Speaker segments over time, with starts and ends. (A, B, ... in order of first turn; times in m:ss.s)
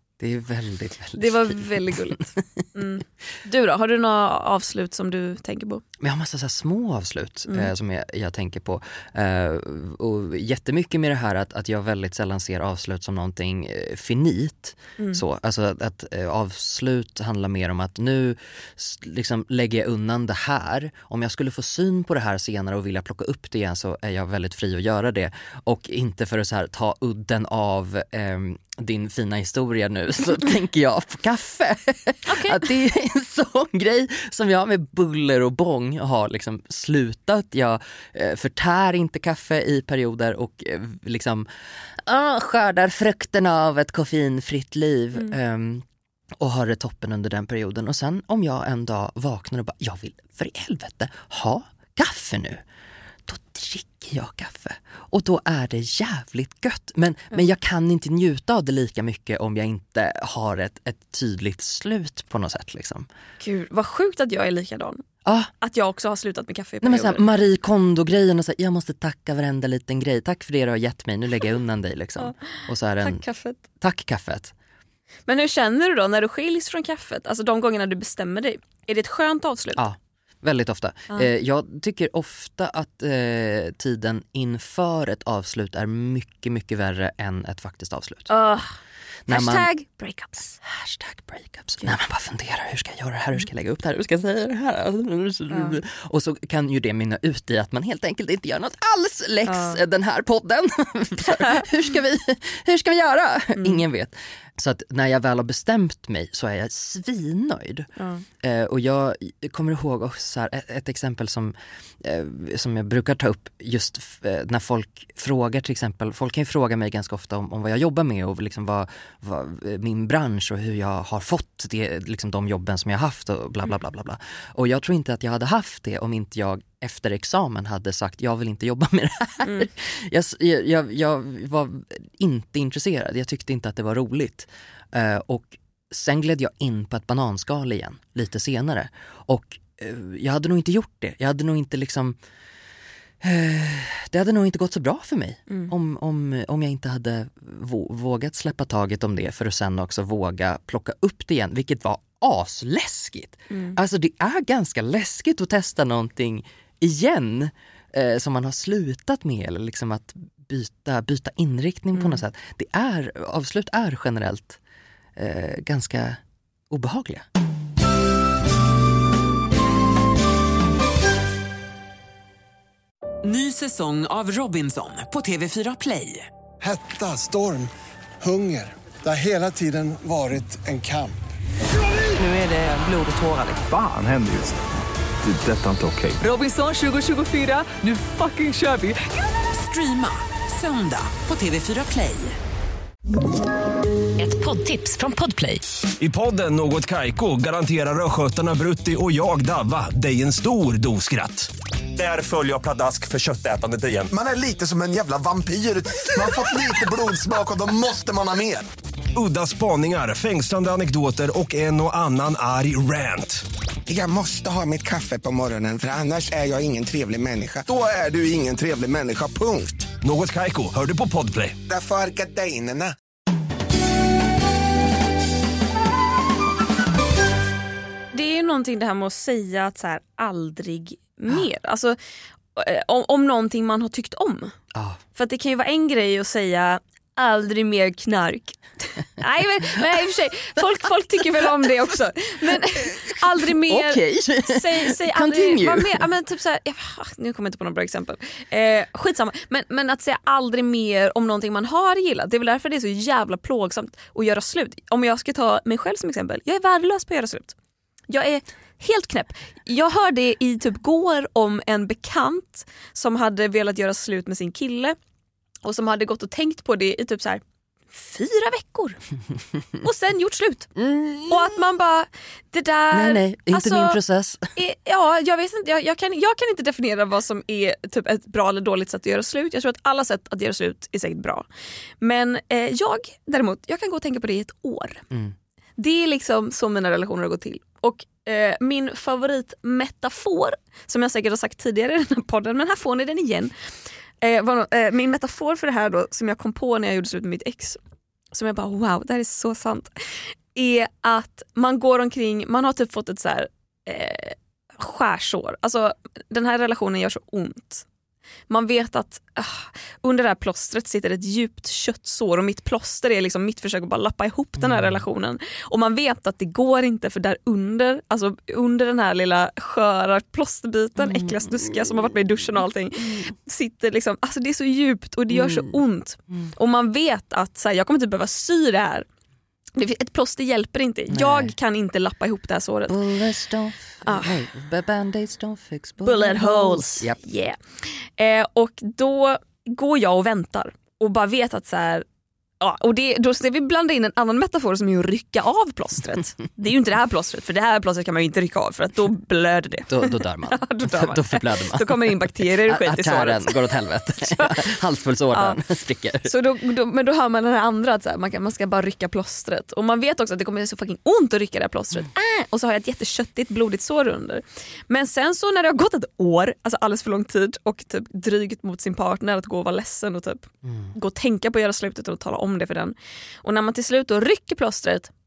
0:00.2-0:02.4 A
0:01.2-0:05.8 B
0:06.0-0:45.8 A
0:15.0-0:15.2 B
0:32.3-0:32.6 B
0:46.4-0:52.6 A
0:53.3-1:03.1 A
1:03.4-1:05.0 B
1:05.2-1:05.5 A
1:05.6-1:07.3 B
1:06.8-1:13.2 A
1:13.0-1:13.6 B
1:13.8-1:14.5 A
1:15.3-1:19.8 B
1:19.8-1:28.3 A
1:28.3-1:28.7 B
1:29.3-1:29.7 A
1:29.3-1:30.6 B
1:30.6-1:47.9 A
1:35.5-1:35.8 B
1:39.5-1:39.8 B
1:41.3-1:41.6 B
1:43.6-1:43.8 B
1:48.0-1:48.2 B
1:48.4-2:22.2 A
2:09.4-2:09.7 B
2:23.2-2:44.6 A
2:33.5-2:33.8 B
2:42.0-2:42.2 B
2:45.2-2:47.3 A
2:53.2-2:56.3 C
2:56.6-2:57.7 D
2:58.2-3:01.2 D
3:02.2-3:03.7 C
3:03.7-3:04.6 E
3:05.2-3:06.2 E
3:06.2-3:12.4 C
3:14.2-3:15.6 C
3:16.0-3:24.1 F
3:24.1-3:28.7 G
3:29.2-3:33.4 F
3:33.9-3:39.9 G
3:40.0-3:41.6 F
3:41.7-3:43.0 G
3:48.1-3:52.0 B
3:52.6-3:54.6 B
3:54.7-3:55.0 A
3:55.2-4:17.6 B
4:03.1-4:06.1 A
4:18.1-4:25.0 B
4:25.6-4:29.0 B
4:29.8-4:30.7 B
4:30.8-4:31.4 A
4:31.3-4:34.0 B
4:32.9-4:34.5 A
4:34.6-4:41.5 B
4:42.0-4:45.0 B
4:45.8-4:53.5 B
4:54.2-4:57.8 B
4:58.3-4:59.9 B
5:00.5-5:07.8 B
5:08.5-5:29.1 B
5:14.6-5:15.0 A
5:21.0-5:22.0 A
5:25.3-5:25.8 A
5:29.8-5:33.0 B
5:31.1-5:31.5 A
5:32.9-5:37.2 A
5:34.0-5:34.4 B
5:36.0-5:37.6 B
5:38.2-5:42.0 B
5:42.6-5:54.7 B
5:49.9-5:56.3 A
5:55.3-5:55.6 B
5:56.2-6:15.1 B
6:10.6-6:10.9 A